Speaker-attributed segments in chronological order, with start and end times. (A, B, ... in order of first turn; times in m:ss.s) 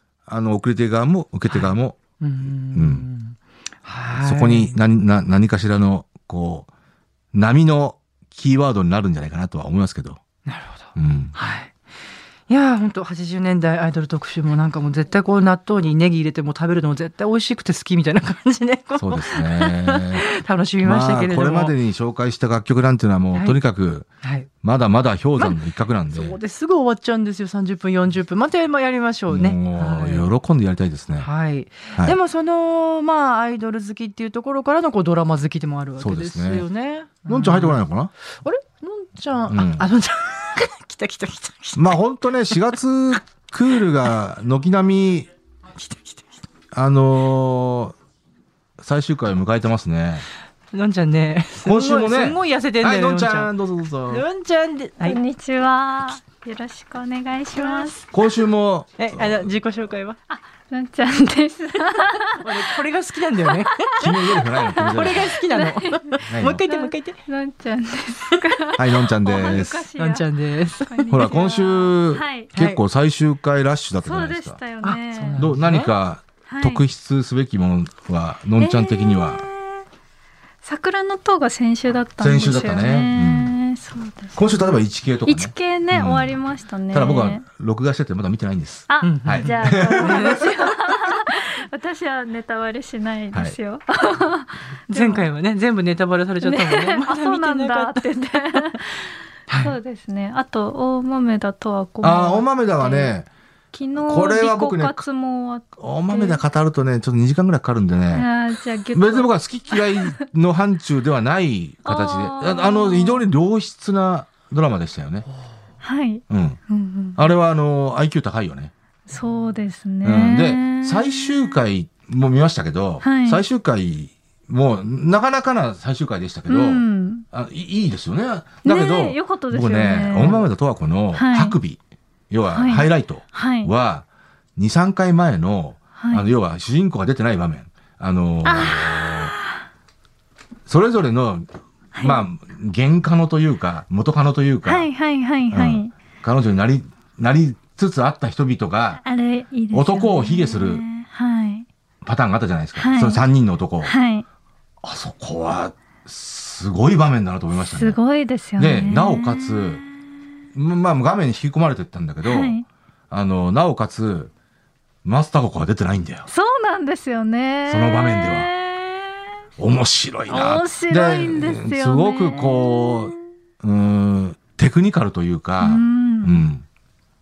0:00.3-0:03.0 A
0:01.5-0:04.8 B
0:04.2-0:06.7 A
0:07.3-0:10.2 A
0:10.4-0:11.7 B
0:10.9-0:11.3 A
0:12.5-0:21.7 B
0:19.0-0:20.2 A
0:20.8-0:24.1 A
0:24.2-0:24.5 B
0:24.6-0:26.4 A
0:26.1-0:30.3 B
0:29.3-0:31.3 A
0:31.2-0:37.8 B
0:36.0-0:36.6 A
0:37.2-0:38.1 A
0:38.4-0:42.8 B
0:39.5-0:39.8 A
0:41.8-0:45.3 A
0:45.7-0:46.3 B
0:46.7-0:48.0 A
0:48.8-0:50.2 A
0:50.7-0:53.5 B
0:51.6-0:54.2 A
0:54.1-0:55.2 B
0:55.0-0:58.0 C
0:57.5-0:58.0 B
0:58.1-0:59.5 A
0:59.0-1:00.2 B
1:00.3-1:02.8 C
1:02.3-1:07.2 B
1:03.9-1:10.3 C
1:04.0-1:05.4 A
1:06.3-1:06.6 A
1:08.8-1:09.9 A
1:10.0-1:11.2 B
1:10.8-1:12.5 C
1:11.1-1:14.6 A
1:12.5-1:12.8 B
1:14.0-1:15.4 C
1:14.8-1:15.9 B
1:15.4-1:19.4 A
1:16.5-1:16.8 C
1:18.6-1:19.8 C
1:20.6-1:24.6 C
1:22.2-1:23.5 A
1:24.3-1:26.4 A
1:25.2-1:27.4 C
1:26.9-1:30.4 A
1:28.9-1:35.2 C
1:29.0-1:31.1 B
1:34.9-1:38.8 B
1:36.4-1:43.1 C
1:39.5-1:39.8 B
1:42.0-1:43.3 A
1:43.7-1:46.4 C
1:44.0-1:45.0 A
1:45.8-1:48.3 A
1:48.1-1:50.1 C
1:48.9-1:55.2 A
1:51.8-1:53.3 C
1:55.8-1:57.2 C
1:56.3-1:56.6 A
1:57.2-1:58.7 A
1:59.1-2:01.6 C
2:00.0-2:11.8 A
2:03.0-2:03.4 C
2:06.5-2:07.2 C
2:08.6-2:10.5 C
2:11.1-2:11.6 C
2:12.3-2:14.0 A
2:12.5-2:13.7 C
2:14.6-2:19.3 A
2:16.0-2:16.3 C
2:18.4-2:19.6 C
2:20.7-2:21.5 A
2:21.9-2:22.2 C
2:22.0-2:24.9 A
2:24.6-2:25.9 C
2:25.5-2:29.0 A
2:29.0-2:31.7 C
2:29.7-2:30.8 A
2:32.0-2:33.9 A
2:32.8-2:33.2 C
2:33.8-2:34.2 C
2:34.8-2:38.0 A
2:37.7-2:40.0 C
2:38.6-2:39.8 A
2:40.5-2:42.6 A
2:42.2-2:42.6 C
2:43.1-2:44.3 A
2:45.0-2:46.3 A
2:46.3-2:49.4 C
2:47.7-2:48.5 A
2:49.6-2:56.6 A
2:50.3-2:53.2 C
2:55.6-2:56.5 C